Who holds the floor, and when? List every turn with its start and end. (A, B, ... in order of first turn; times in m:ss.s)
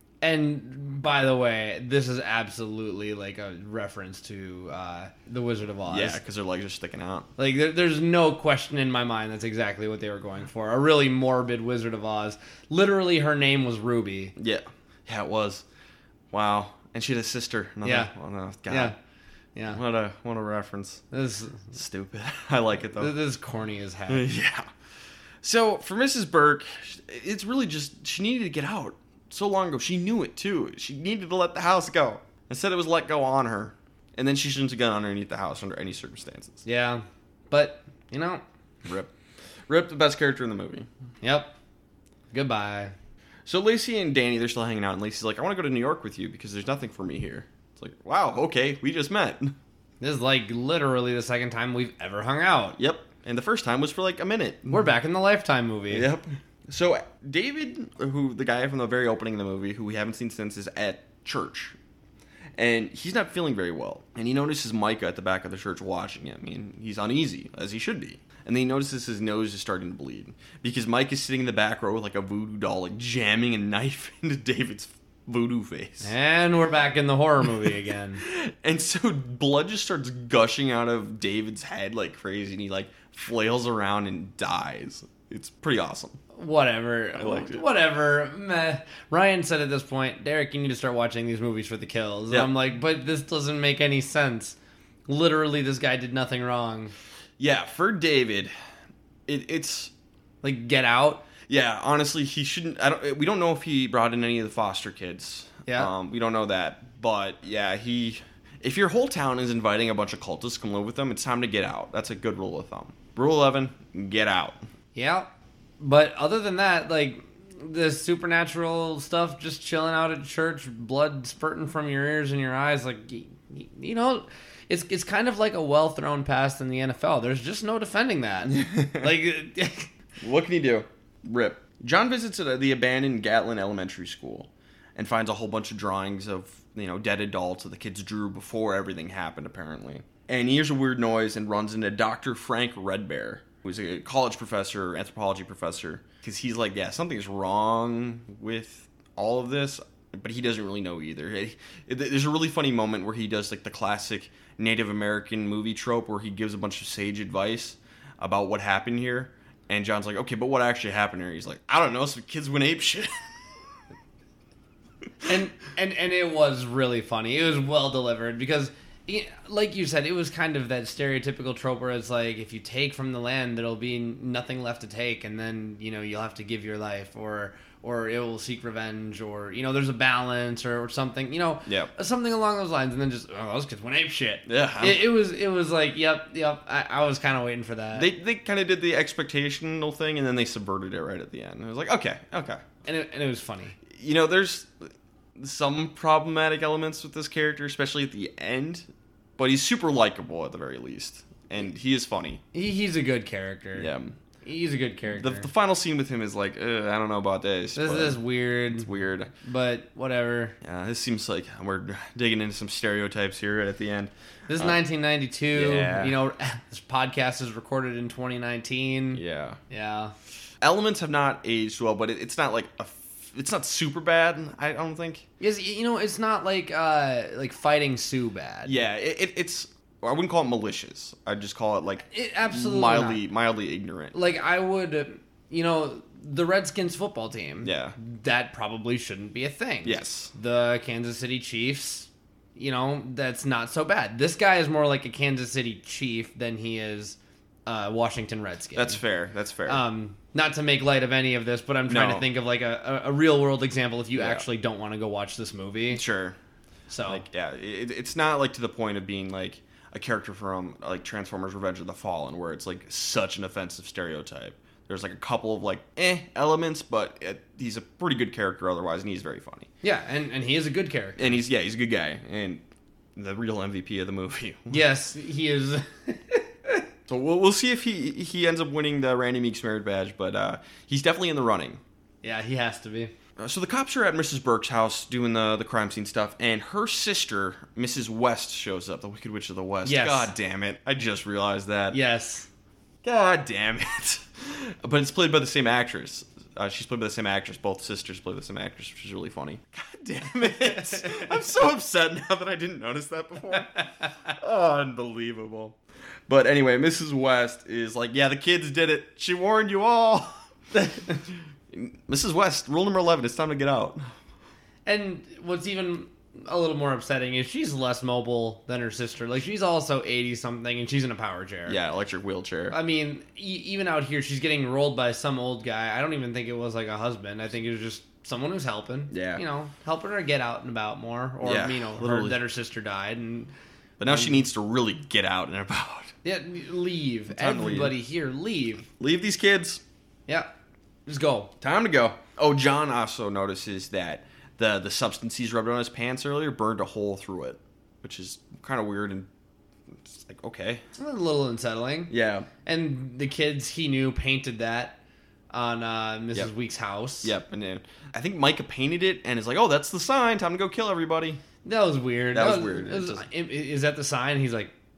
0:00.2-0:06.2 A
0:05.9-0:07.3 B
0:07.4-0:14.3 A
0:14.4-0:15.6 B
0:16.3-0:18.9 B
0:17.8-0:18.1 A
0:18.7-0:18.9 A
0:19.5-0:19.8 A
0:19.7-0:21.0 B
0:21.1-0:21.7 A
0:21.7-0:23.1 B
0:22.9-0:24.3 A
0:24.1-0:24.7 B
0:25.4-0:36.6 B
0:36.6-0:38.4 A
0:38.8-0:39.1 B
0:39.7-0:40.9 B
0:41.2-0:41.5 A
0:42.3-0:42.9 A
0:43.4-0:49.6 B
0:50.0-0:52.8 A
0:52.8-0:54.8 B
0:54.7-0:56.1 A
0:55.9-1:01.8 B
1:02.6-1:16.1 B
1:16.0-1:18.2 A
1:18.2-1:26.2 B
1:26.3-1:36.9 A
1:27.2-1:27.6 B
1:37.4-1:38.5 B
1:39.3-1:39.9 B
1:40.4-1:41.2 A
1:41.5-1:54.6 B
1:45.6-1:45.9 A
1:54.9-2:09.9 A
2:08.5-2:09.2 B
2:10.2-2:43.3 B
2:45.2-3:08.1 A
3:01.6-3:01.9 B
3:04.4-3:05.1 B
3:07.9-3:12.6 B
3:12.8-3:13.8 A
3:13.9-3:18.9 B
3:19.4-3:22.4 B
3:22.5-3:23.9 A
3:23.8-3:24.2 B
3:24.4-3:25.5 A
3:25.1-3:29.3 B
3:27.8-3:30.6 A
3:30.6-3:34.8 B
3:34.5-3:40.1 A
3:35.5-3:36.2 B
3:39.1-3:39.6 B
3:40.6-3:45.2 B
3:45.4-3:48.8 A
3:48.6-3:54.1 B
3:52.1-3:53.2 A
3:54.1-4:09.0 A
3:57.6-3:58.0 B
3:59.8-4:00.3 B
4:08.8-4:09.8 B
4:09.6-4:16.0 A
4:11.9-4:12.3 B
4:14.1-4:14.4 B
4:15.9-4:16.4 B
4:16.9-4:17.2 A
4:17.0-4:29.7 B
4:29.8-4:31.4 A
4:31.2-4:32.6 B
4:33.2-4:34.8 B
4:34.7-4:36.8 A
4:37.1-4:41.8 B
4:42.2-4:43.1 A
4:43.4-4:52.0 B
4:49.8-4:50.3 A
4:51.9-4:52.5 A
4:53.0-5:14.0 B
5:00.6-5:01.3 A
5:03.8-5:04.1 A
5:14.8-5:21.8 A
5:21.7-5:22.8 B
5:22.7-5:33.5 A
5:29.1-5:29.4 B
5:31.4-5:32.4 B
5:34.0-5:36.1 B
5:34.1-5:34.4 A
5:36.2-5:38.9 A
5:37.3-5:38.0 B
5:38.9-5:39.8 B
5:41.1-5:41.5 A
5:41.6-5:49.3 B
5:49.9-5:50.8 B
5:51.0-5:52.1 A
5:52.1-5:52.5 B
5:52.6-5:55.0 A
5:55.5-5:57.3 A
5:57.2-6:01.4 B
6:01.6-6:04.7 A
6:02.3-6:03.2 B